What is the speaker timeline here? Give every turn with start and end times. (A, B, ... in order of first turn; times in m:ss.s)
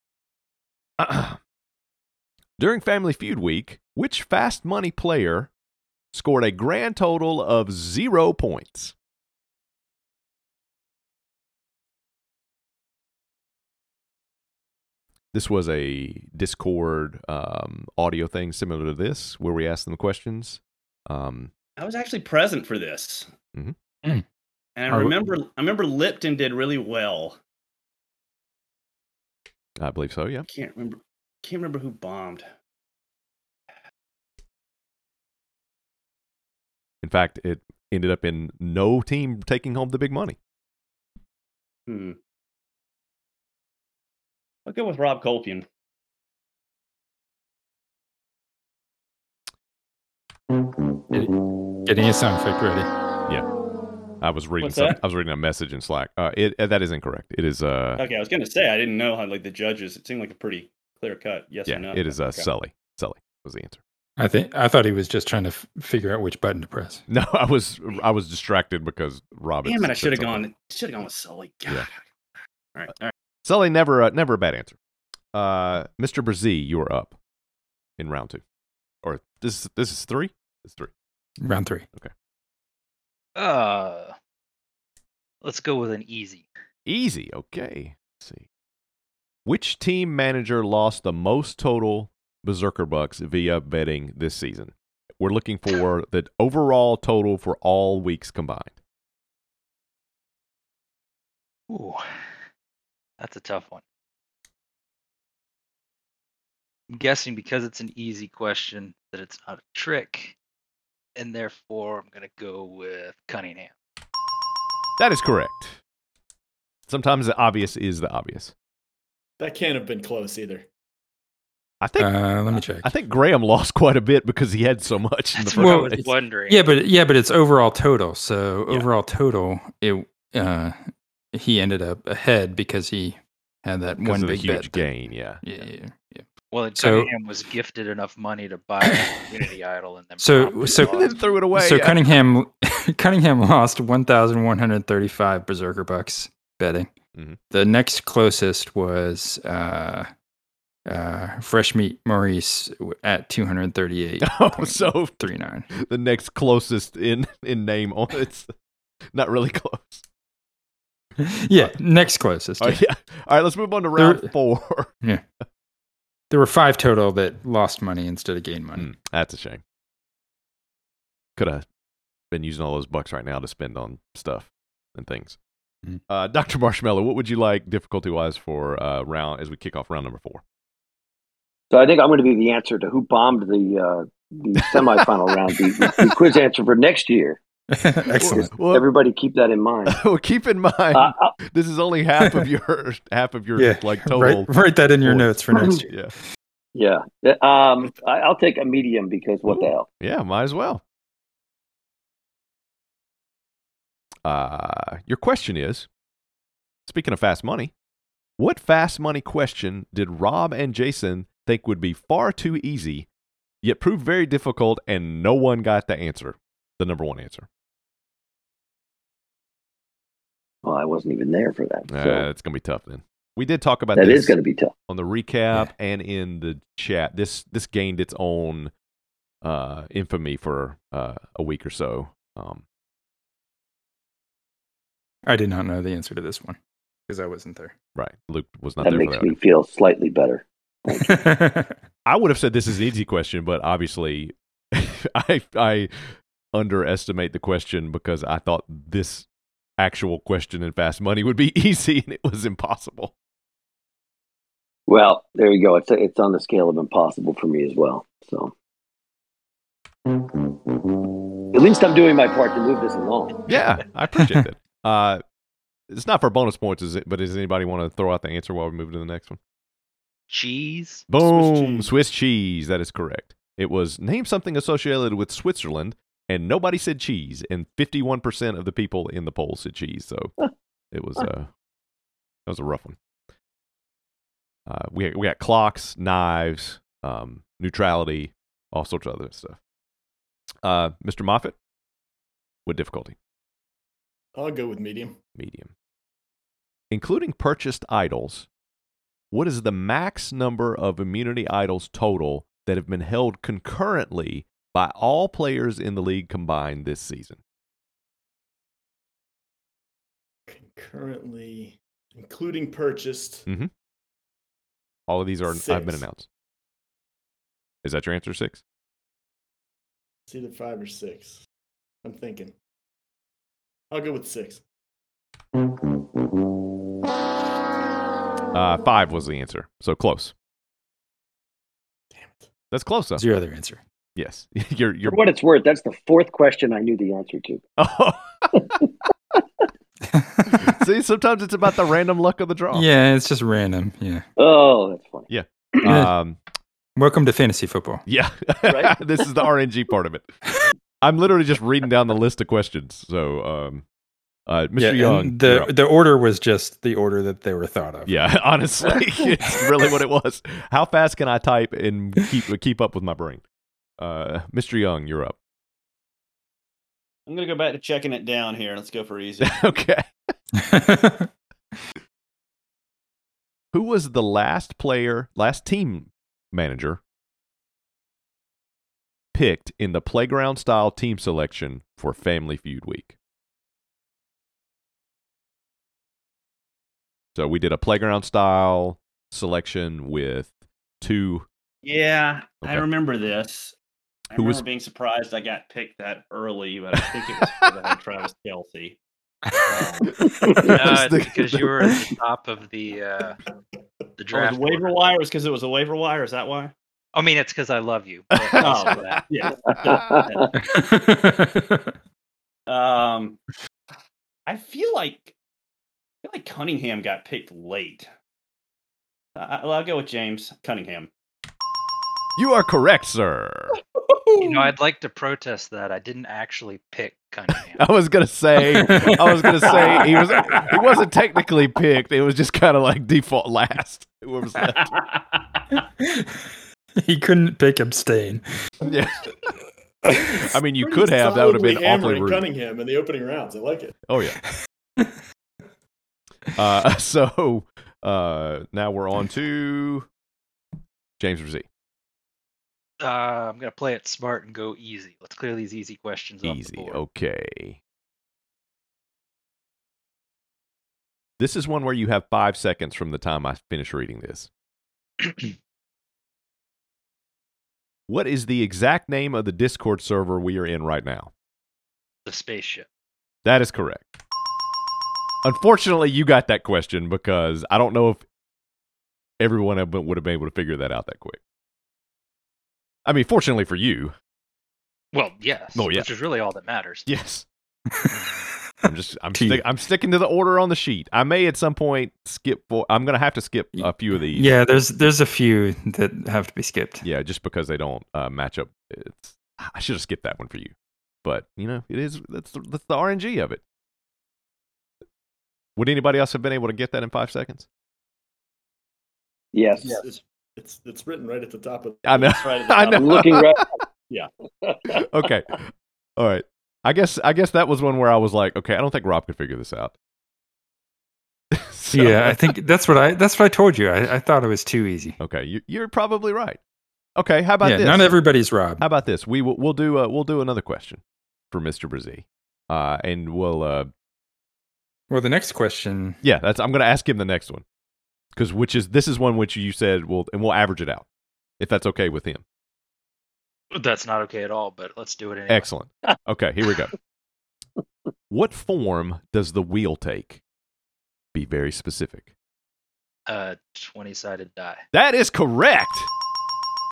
0:01.0-0:01.4 A
0:02.6-0:05.5 A
0:06.1-0:08.9 A
0:15.3-0:21.5 A
0:21.8-0:23.3 B
0:24.8-0:27.4 B
0:24.9-0:25.1 C
0:29.8-0:30.4 A
0:30.5-0:32.5 B
0:37.0-0:40.4 A
0:41.9-0:42.2 B
0:44.6-0:45.6 B
0:51.8-0:52.9 C
0:54.2-0:58.0 A
0:54.6-0:55.0 B
0:58.0-1:02.5 B
1:01.7-1:03.8 A
1:04.2-1:07.0 C
1:07.1-1:10.5 A
1:09.6-1:11.9 B
1:12.7-1:13.1 B
1:13.4-1:14.8 A
1:15.3-1:17.2 A
1:18.0-1:18.4 A
1:19.0-1:20.9 A
1:21.4-1:21.8 C
1:23.4-1:24.1 D
1:25.4-1:26.4 D
1:26.8-1:28.4 A
1:29.4-1:38.8 A
1:41.7-1:42.0 D
1:43.2-1:43.8 D
1:46.9-1:50.3 D
1:51.2-1:53.7 D
1:55.0-1:55.8 A
1:56.9-1:58.5 A
1:59.4-2:00.7 E
2:01.8-2:06.1 A
2:02.0-2:02.9 C
2:05.4-2:06.6 D
2:05.6-2:10.8 C
2:11.3-2:14.9 C
2:14.0-2:15.4 A
2:15.4-2:17.1 C
2:16.5-2:21.3 D
2:18.8-2:19.1 C
2:20.2-2:26.9 C
2:20.8-2:22.0 A
2:27.5-2:30.1 C
2:30.8-2:35.7 C
2:34.2-2:38.5 A
2:39.1-2:40.0 A
2:41.2-2:42.8 C
2:42.6-2:44.9 A
2:44.0-2:44.3 C
2:46.3-2:48.9 C
2:48.8-2:49.6 A
2:51.4-2:51.6 A
2:52.3-2:55.4 A
2:56.1-3:00.4 A
3:01.7-3:07.4 F
3:04.6-3:05.3 A
3:07.7-3:08.5 C
3:08.2-3:08.8 A
3:08.2-3:10.0 F
3:09.8-3:16.1 A
3:10.9-3:11.3 F
3:13.5-3:15.9 C
3:16.7-3:19.9 F
3:19.5-3:20.8 A
3:24.2-3:25.9 A
3:26.9-3:27.7 A
3:28.4-3:33.1 A
3:33.6-3:37.5 A
3:40.6-3:42.2 F
3:41.9-3:44.4 A
3:43.9-3:44.7 F
3:44.9-3:48.7 A
3:49.4-3:52.6 A
3:55.2-3:57.7 C
3:57.9-3:59.4 A
3:58.8-4:01.2 F
4:01.0-4:01.7 C
4:02.0-4:09.2 A
4:09.8-4:13.1 A
4:14.9-4:18.5 F
4:21.5-4:23.5 F
4:23.5-4:25.2 A
4:25.9-4:29.4 A
4:30.3-4:31.0 D
4:31.1-4:40.3 A
4:31.2-4:31.9 E
4:40.9-4:41.5 A
4:42.4-4:43.0 A
4:44.7-4:49.6 A
4:50.6-4:51.6 A
4:52.6-4:53.2 A
4:54.3-4:55.2 E
4:55.4-4:55.7 A
4:56.9-4:58.5 A
4:59.3-5:07.4 A
5:10.5-5:13.5 E
5:15.1-5:16.3 A
5:15.4-5:16.0 E
5:17.8-5:18.6 A
5:20.3-5:21.4 E
5:22.0-5:22.5 E
5:23.9-5:24.6 E
5:28.5-5:30.3 A
5:32.1-5:32.5 E
5:32.7-5:33.2 A
5:33.2-5:33.8 C
5:34.2-5:35.2 A
5:35.0-5:37.6 F
5:37.8-5:38.8 A
5:40.1-5:40.7 C
5:40.6-5:42.9 A
5:42.7-5:44.2 C
5:44.4-5:45.3 F
5:45.3-5:46.4 A
5:45.8-5:46.1 C
5:47.0-5:48.0 C
5:48.1-5:50.3 A
5:48.7-5:49.2 F
5:51.0-5:53.8 A
5:54.5-5:55.7 A
5:54.8-5:58.2 C
5:58.0-6:03.4 A
6:04.0-6:05.4 A
6:07.3-6:09.6 B
6:09.4-6:10.1 A
6:10.6-6:11.3 C
6:13.7-6:17.0 A
6:19.3-6:23.1 A
6:27.3-6:31.4 A
6:31.8-6:33.7 B
6:32.6-6:32.9 A
6:34.3-6:39.0 B
6:34.3-6:34.6 A
6:39.7-6:40.2 B
6:40.3-6:40.7 F
6:40.5-6:42.0 A
6:40.7-6:43.4 D
6:44.2-6:45.0 D
6:44.3-6:46.7 B
6:47.1-6:49.2 D
6:48.3-6:49.2 A
6:48.6-6:50.5 B
6:49.6-6:50.5 F
6:49.8-6:50.2 A
6:50.6-6:51.9 C
6:52.7-6:53.4 B
6:54.4-6:55.3 B
6:56.2-6:58.1 B
6:59.4-7:01.1 B
7:02.4-7:03.8 A
7:04.4-7:07.8 D
7:07.7-7:14.9 A
7:08.8-7:09.7 C
7:14.8-7:15.2 B
7:16.0-7:16.4 C
7:17.0-7:18.4 C
7:18.8-7:19.3 A
7:20.0-7:24.0 E
7:20.4-7:22.4 A
7:24.1-7:24.4 A
7:26.5-7:30.0 A
7:31.2-7:31.6 A
7:33.0-7:37.0 D
7:36.4-7:37.8 A
7:41.4-7:44.5 A
7:45.2-7:45.5 D
7:48.1-7:51.3 A
7:52.3-7:52.9 D
7:53.4-7:54.1 A
7:55.4-7:58.2 A
7:59.4-8:01.4 A
8:03.0-8:04.1 A
8:05.1-8:07.0 D
8:05.7-8:06.1 A
8:07.0-8:07.4 A
8:07.9-8:08.2 C
8:08.8-8:14.5 A
8:09.3-8:09.6 C
8:13.7-8:17.0 C
8:17.0-8:23.6 A
8:25.8-8:27.6 A
8:29.5-8:30.0 F
8:29.8-8:32.9 E
8:32.0-8:33.7 A
8:32.3-8:33.3 B
8:32.9-8:33.8 F
8:34.6-8:35.0 F
8:34.9-8:39.9 A
8:41.5-8:42.4 A
8:41.9-8:45.2 C
8:45.2-8:46.6 A
8:47.2-8:48.2 A
8:47.6-8:48.8 C
8:48.8-8:53.9 A
8:55.1-8:56.2 C
8:56.2-8:57.6 A
8:58.4-9:01.0 A
9:01.6-9:02.4 A
9:03.7-9:05.7 D
9:05.5-9:06.9 A
9:08.3-9:10.4 A
9:11.3-9:12.3 A
9:13.3-9:14.8 D
9:14.9-9:16.1 A